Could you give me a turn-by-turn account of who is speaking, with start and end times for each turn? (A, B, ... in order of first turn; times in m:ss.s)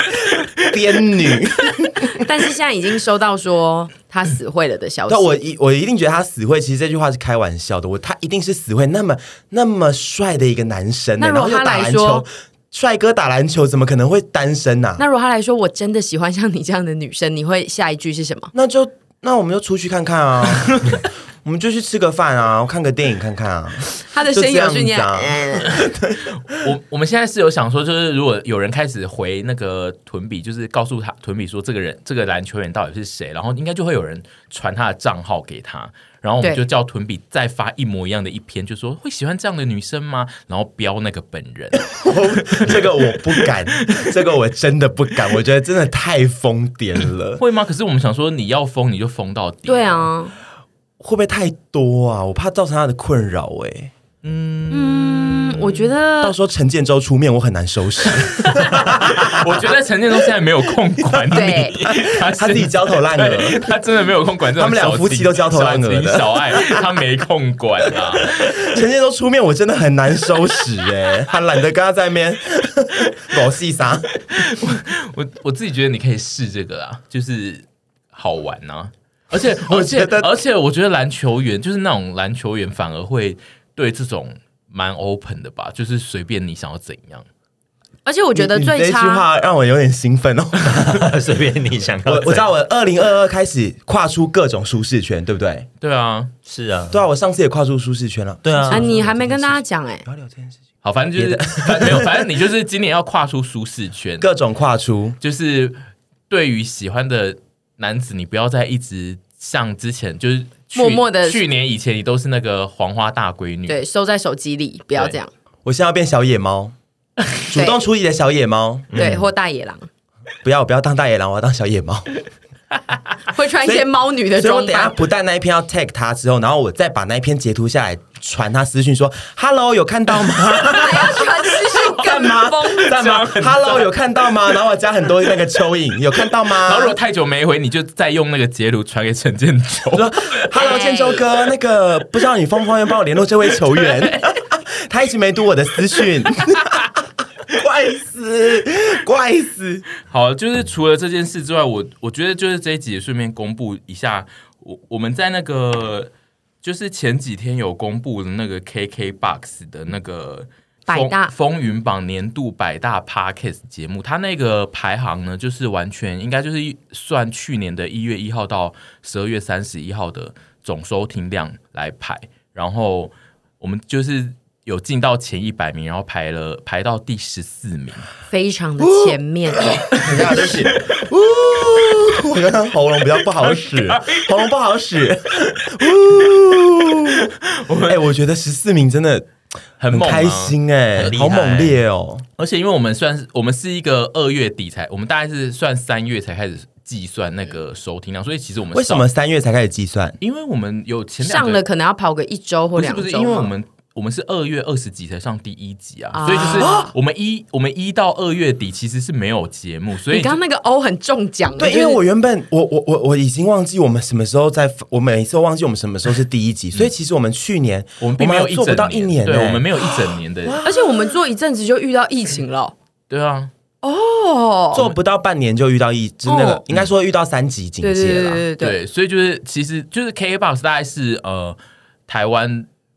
0:00.6-0:02.2 A
0:02.2-0:05.3 B
0:05.1-0:15.0 A
0:11.2-0:12.2 B
0:15.0-0:18.5 B
0:18.5-0:26.3 A
0:20.6-0:21.0 C
0:24.0-0:25.8 B
0:25.7-0:44.1 C
0:41.9-0:47.4 A
0:47.4-0:50.1 C
0:49.7-0:50.4 B
0:51.0-0:53.9 A
0:54.2-0:55.9 C
0:54.7-0:56.4 B
0:56.2-0:59.7 A
0:58.1-1:08.8 C
1:01.0-1:03.7 A
1:01.3-1:01.8 B
1:04.6-1:06.8 A
1:07.9-1:14.1 A
1:14.3-1:27.3 C
1:19.6-1:20.3 A
1:28.0-1:29.3 B
1:28.4-1:31.1 A
1:30.7-1:32.4 D
1:32.1-1:35.7 A
1:35.8-1:36.3 C
1:36.5-1:37.0 D
1:36.9-1:40.6 A
1:38.4-1:38.8 D
1:38.7-1:40.0 B
1:40.8-1:44.3 C
1:41.2-1:42.4 A
1:44.2-1:45.2 A
1:45.2-1:45.8 C
1:46.3-1:53.8 C
1:50.8-1:51.4 B
1:53.7-1:55.3 B
1:55.6-1:56.8 A
1:57.5-1:59.2 A
1:57.5-1:57.8 B
1:58.9-1:59.2 D
1:59.0-1:59.9 B
2:00.4-2:02.1 A
2:03.3-2:05.0 B
2:03.6-2:17.0 A
2:10.6-2:13.0 B
2:12.8-2:13.9 C
2:16.5-2:20.4 C
2:19.9-2:29.9 A
2:20.6-2:21.2 B
2:23.8-2:24.3 C
2:26.3-2:26.8 C
2:30.0-2:36.1 C
2:36.6-2:58.1 C
2:40.9-2:41.3 B
2:58.3-2:59.8 B
2:58.8-3:07.3 A
3:00.0-3:01.0 C
3:03.4-3:04.4 C
3:07.0-3:08.1 C
3:07.9-3:09.3 A
3:09.8-3:11.6 C
3:09.9-3:12.3 A
3:11.0-3:11.8 D
3:12.4-3:19.1 C
3:18.7-3:20.2 A
3:20.2-3:21.6 C
3:21.2-3:23.5 B
3:22.8-3:30.4 C
3:26.1-3:26.9 B
3:26.4-3:26.9 A
3:30.1-3:32.0 B
3:31.6-3:41.1 A
3:38.0-3:40.6 C
3:40.6-3:42.8 B
3:43.1-3:43.5 C
3:43.8-3:44.9 B
3:44.7-3:48.5 A
3:46.3-3:46.6 B
3:47.8-3:48.8 B
3:48.6-3:52.7 C